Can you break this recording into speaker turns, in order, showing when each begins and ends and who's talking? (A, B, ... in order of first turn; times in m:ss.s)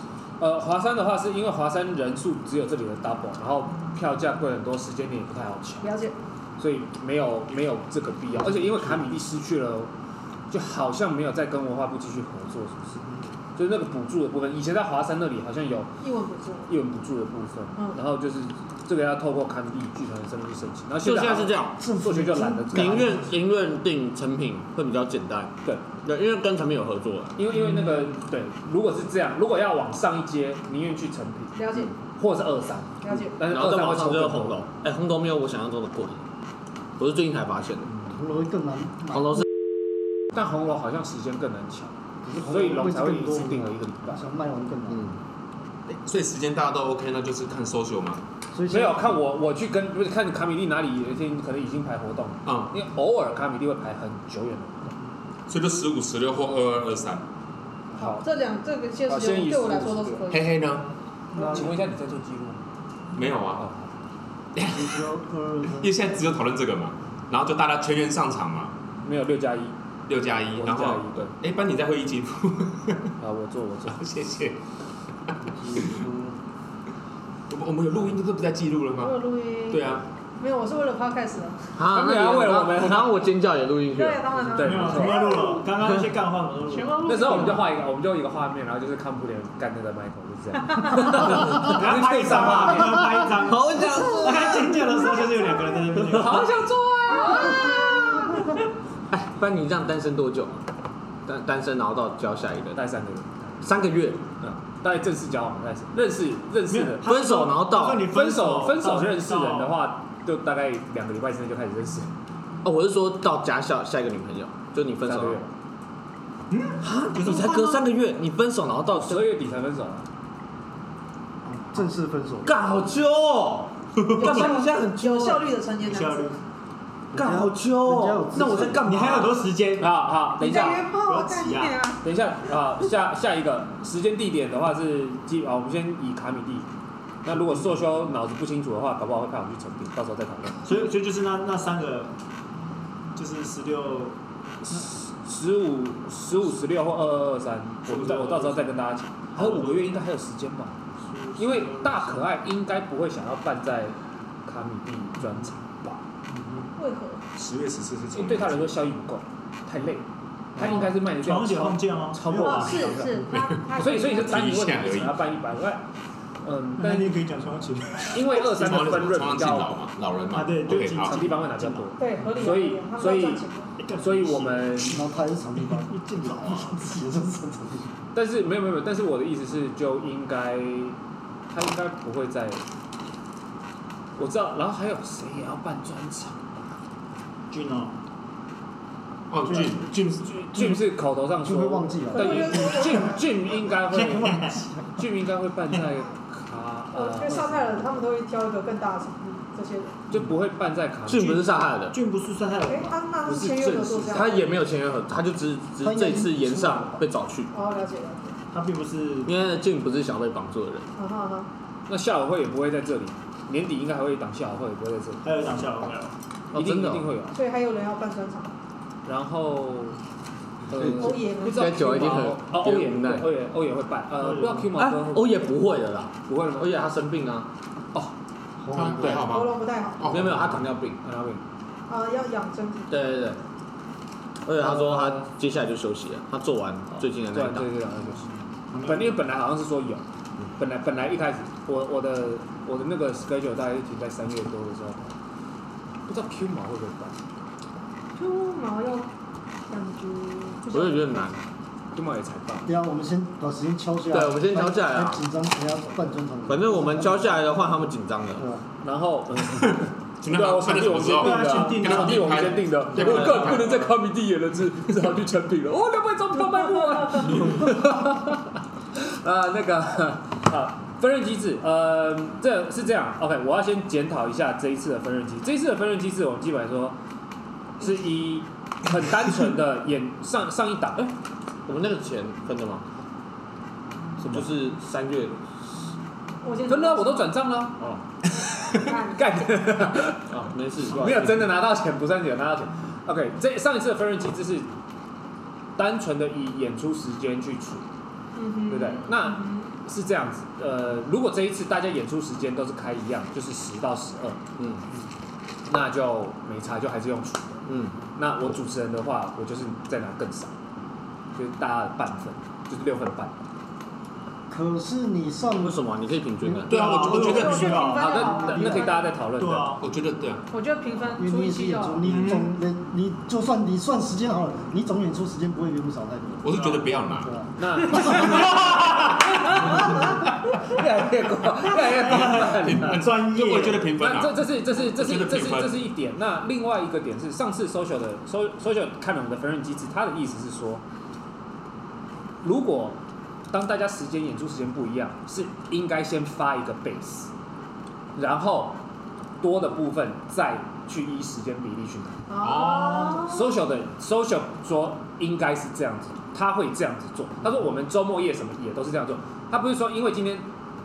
0:00.4-0:05.9 A
0:05.8-0:06.2 B
0:06.6-0:09.9 A
0:10.5-0:13.0 A
0:13.6-0:15.9 A
0:16.0-0:16.7 B
0:16.7-0:23.1 A
0:21.0-0:21.8 C
0:21.8-0:23.3 D
0:22.7-0:27.4 C
0:27.4-0:31.6 A
0:31.6-0:32.0 B
0:32.2-0:34.6 A
0:33.0-0:33.4 B
0:33.4-0:36.2 C
0:37.0-0:38.0 C
0:38.1-0:39.3 D
0:39.1-0:39.4 C
0:40.3-0:44.2 A
0:42.2-0:45.1 D
0:44.9-0:45.2 C
0:46.0-0:48.2 E
0:48.5-0:49.2 D
0:48.7-0:55.0 A
0:52.4-0:52.7 E
0:55.5-0:57.2 E
0:58.0-0:58.2 A
0:58.0-1:00.5 B
0:59.1-1:00.2 A
1:00.3-1:00.9 E
1:01.3-1:01.7 D
1:01.4-1:02.6 A
1:03.1-1:03.6 E
1:03.5-1:04.0 A
1:04.6-1:05.0 E
1:04.7-1:06.0 D
1:05.6-1:08.7 E
1:09.0-1:09.8 A
1:10.1-1:13.1 E
1:10.6-1:11.4 A
1:13.2-1:14.0 A
1:13.9-1:14.6 E
1:15.4-1:16.4 D
1:17.5-1:20.0 E
1:19.0-1:21.6 B
1:21.8-1:24.2 C
1:21.9-1:23.1 A
1:23.9-1:25.7 B
1:24.5-1:25.3 A
1:24.6-1:27.6 F
1:26.7-1:27.6 B
1:27.0-1:33.1 A
1:31.1-1:36.5 F
1:33.3-1:34.7 C
1:36.1-1:38.2 A
1:37.1-1:38.2 B
1:39.1-1:40.6 C
1:41.3-1:42.8 C
1:42.8-1:43.6 A
1:43.6-1:44.2 C
1:44.4-1:47.0 A
1:46.7-1:49.8 F
1:47.0-1:48.1 C
1:48.1-1:52.1 A
1:52.6-1:55.4 C
1:55.0-1:55.5 A
1:56.5-1:57.8 F
1:56.8-1:59.3 C
1:59.0-2:00.1 A
2:01.6-2:02.5 D
2:02.4-2:05.5 C
2:04.0-2:04.4 F
2:04.1-2:06.4 B
2:05.8-2:06.4 F
2:07.1-2:08.9 D
2:07.1-2:09.5 C
2:08.6-2:09.9 F
2:09.8-2:10.8 A
2:10.4-2:12.0 B
2:11.0-2:11.9 F
2:12.0-2:16.7 A
2:17.2-2:20.6 A
2:20.6-2:22.1 F
2:23.1-2:24.2 F
2:24.6-2:30.8 A
2:27.9-2:28.8 F
2:29.4-2:29.9 F
2:31.1-2:32.4 F
2:31.4-2:36.0 A
2:36.3-2:36.6 F
2:36.8-2:37.2 B
2:37.4-2:38.8 E
2:38.1-2:40.0 A
2:40.6-2:43.1 A
2:40.6-2:43.2 F
2:42.4-2:44.5 B
2:43.3-2:45.2 E
2:43.7-2:45.8 A
2:46.4-2:47.2 A
2:46.8-2:49.0 F
2:48.1-2:49.7 A
2:48.4-2:51.2 E
2:50.3-2:51.9 F
2:51.0-2:53.4 A
2:52.0-2:53.8 B
2:53.8-2:55.0 F
2:54.0-2:55.0 A
2:54.9-2:57.9 D
2:55.7-2:57.0 F
2:58.1-3:01.0 A
3:01.5-3:02.6 A
3:04.2-3:06.5 A
3:07.5-3:07.9 F
3:09.3-3:10.3 E
3:10.2-3:17.9 A
3:11.4-3:12.7 D
3:12.1-3:13.3 B
3:13.8-3:14.6 F
3:16.9-3:20.0 B
3:20.1-3:21.4 A
3:21.1-3:22.0 C
3:21.2-3:23.0 F
3:22.6-3:24.5 B
3:23.3-3:24.3 A
3:24.1-3:27.5 C
3:25.8-3:27.0 D
3:27.5-3:28.4 B
3:28.5-3:29.3 F
3:29.2-3:30.9 C
3:31.0-3:31.5 B
3:31.9-3:35.2 A
3:35.2-3:36.1 F
3:36.5-3:37.1 C
3:36.5-3:37.4 A
3:37.3-3:38.5 B
3:39.0-3:40.0 A
3:40.7-3:45.4 A
3:40.8-3:41.8 B
3:41.1-3:43.3 C
3:44.2-3:44.7 F
3:44.8-3:47.5 C
3:46.3-3:46.7 A
3:48.6-3:49.3 D
3:48.7-3:50.7 E
3:49.1-3:50.1 B
3:50.0-3:51.0 C
3:51.0-3:51.4 A
3:51.9-3:53.1 B
3:52.9-3:53.4 C
3:54.5-3:57.7 C
3:54.8-3:55.2 A
3:56.9-4:00.0 A
3:58.7-3:59.1 F
4:00.6-4:05.1 A
4:06.1-4:07.2 A
4:08.2-4:09.1 B
4:09.7-4:11.4 B
4:10.7-4:11.4 C
4:12.0-4:12.7 A
4:12.6-4:17.7 D
4:14.1-4:15.2 C
4:16.5-4:18.5 C
4:18.4-4:18.6 D
4:18.8-4:37.0 A
4:19.5-4:23.9 E
4:21.1-4:23.4 F
4:37.8-4:41.1 A
4:41.6-4:42.8 C
4:44.2-4:44.5 A
4:44.3-4:45.4 C
4:46.4-4:47.4 B
4:46.7-4:47.8 A
4:48.4-4:49.5 B
4:48.7-4:50.3 A
4:50.3-4:51.5 C
4:50.9-4:51.5 F
4:50.9-4:54.7 A
4:55.8-4:57.8 A
4:58.4-4:59.7 B
4:58.7-5:04.4 A
5:04.6-5:04.8 C
5:05.7-5:07.6 A
5:07.7-5:08.0 C
5:08.2-5:10.5 A
5:11.4-5:13.4 A
5:14.5-5:15.8 D
5:15.6-5:17.1 C
5:16.4-5:17.6 D
5:16.7-5:17.9 E
5:16.7-5:18.4 F
5:17.1-5:19.1 B
5:17.9-5:19.7 A
5:18.2-5:19.0 D
5:19.3-5:19.8 F
5:19.8-5:20.4 E
5:20.5-5:22.0 B
5:21.2-5:26.6 D
5:22.0-5:22.6 F
5:26.4-5:27.3 E
5:26.6-5:26.8 F
5:27.2-5:28.7 D
5:27.6-5:28.6 A
5:28.6-5:29.9 E
5:30.6-5:33.0 A
5:31.8-5:34.0 F
5:32.1-5:35.9 E
5:34.0-5:40.8 A
5:42.4-5:43.0 A
5:43.5-5:47.3 A
5:48.1-5:48.8 A
5:49.4-5:52.2 A
5:52.3-5:53.6 B
5:52.4-5:53.3 E
5:53.2-6:00.5 A